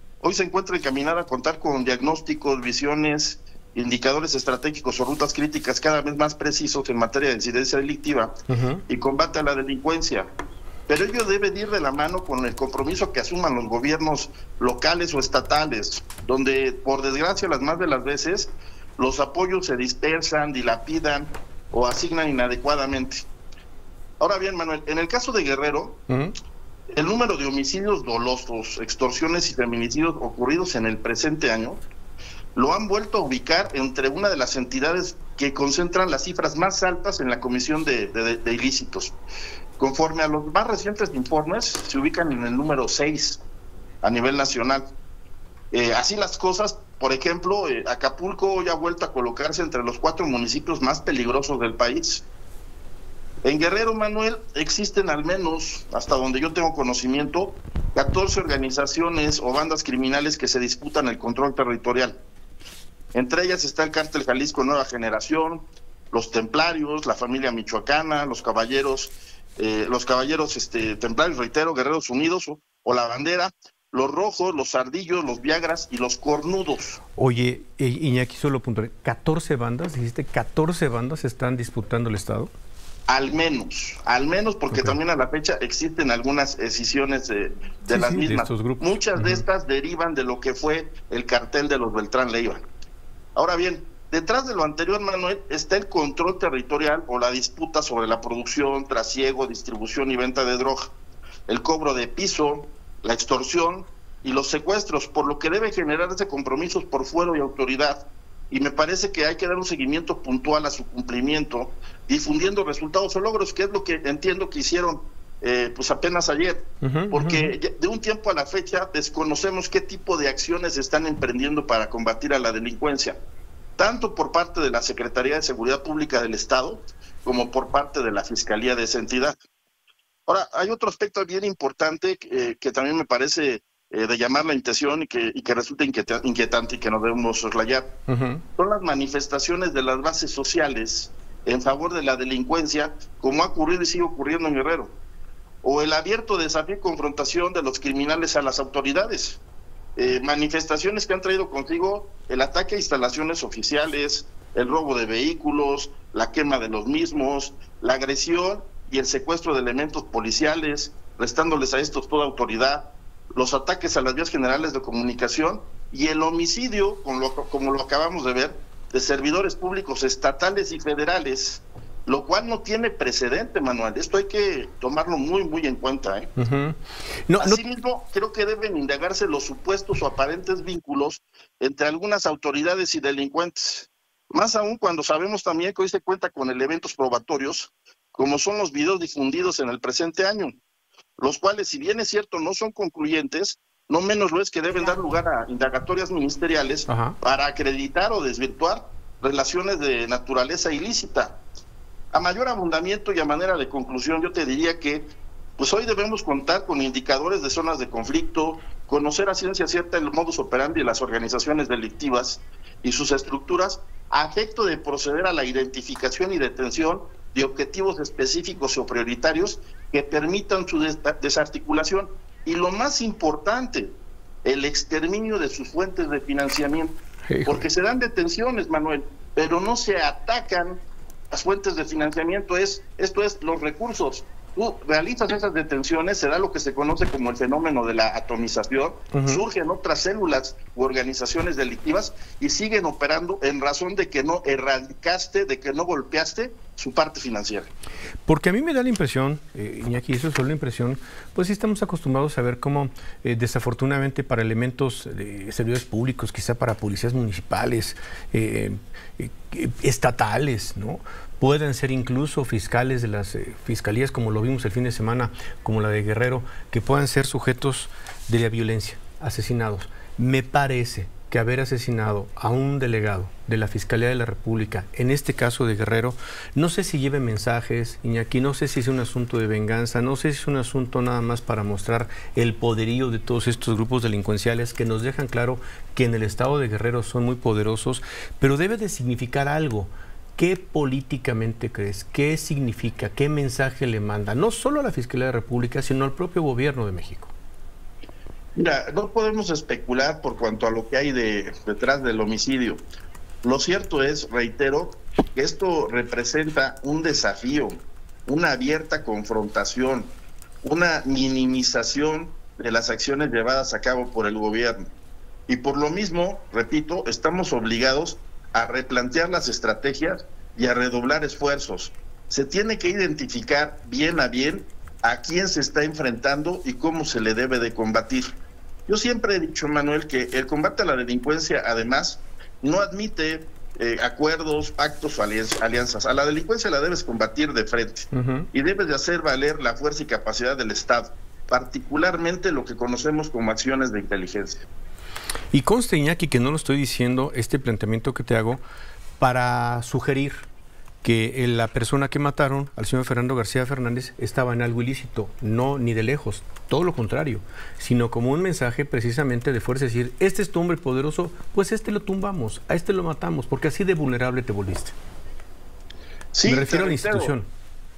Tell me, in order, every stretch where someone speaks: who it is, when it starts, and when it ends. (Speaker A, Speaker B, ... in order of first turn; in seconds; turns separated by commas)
Speaker A: 0.2-8.3, Speaker B: 8.5-8.8, Speaker A: 8.9-10.3, Speaker A: 10.9-23.2, Speaker A: 24.2-26.0, Speaker B: 26.1-26.3, Speaker A: 26.9-31.8, Speaker A: 32.5-39.1, Speaker A: 39.8-43.4, Speaker A: 44.0-44.9, Speaker A: 45.7-52.2, Speaker A: 53.4-62.2, Speaker A: 63.1-77.0, Speaker B: 77.2-82.5, Speaker A: 83.1-92.6, Speaker B: 84.7-85.0, Speaker B: 87.9-89.4, Speaker A: 93.3-100.9, Speaker A: 101.5-123.2, Speaker B: 116.8-117.5, Speaker A: 123.8-129.3, Speaker A: 130.3-137.9, Speaker B: 138.1-138.4, Speaker A: 138.6-144.9, Speaker A: 145.6-149.4, Speaker A: 149.9-176.3, Speaker B: 176.4-177.6, Speaker A: 177.4-190.5, Speaker A: 191.2-201.4, Speaker B: 196.9-197.2, Speaker A: 202.1-205.1, Speaker A: 205.6-247.7, Speaker B: 227.3-227.7, Speaker B: 239.1-239.4, Speaker B: 248.2-297.3, Speaker A: 298.6-302.8, Speaker A: 303.4-314.9, Speaker A: 315.5-328.3, Speaker A: 328.9-344.6, Speaker B: 338.1-338.5, Speaker B: 345.5-348.6, Speaker B: 349.2-350.5, Speaker B: 351.0-364.9, Speaker A: 366.3-367.3, Speaker B: 366.4-367.4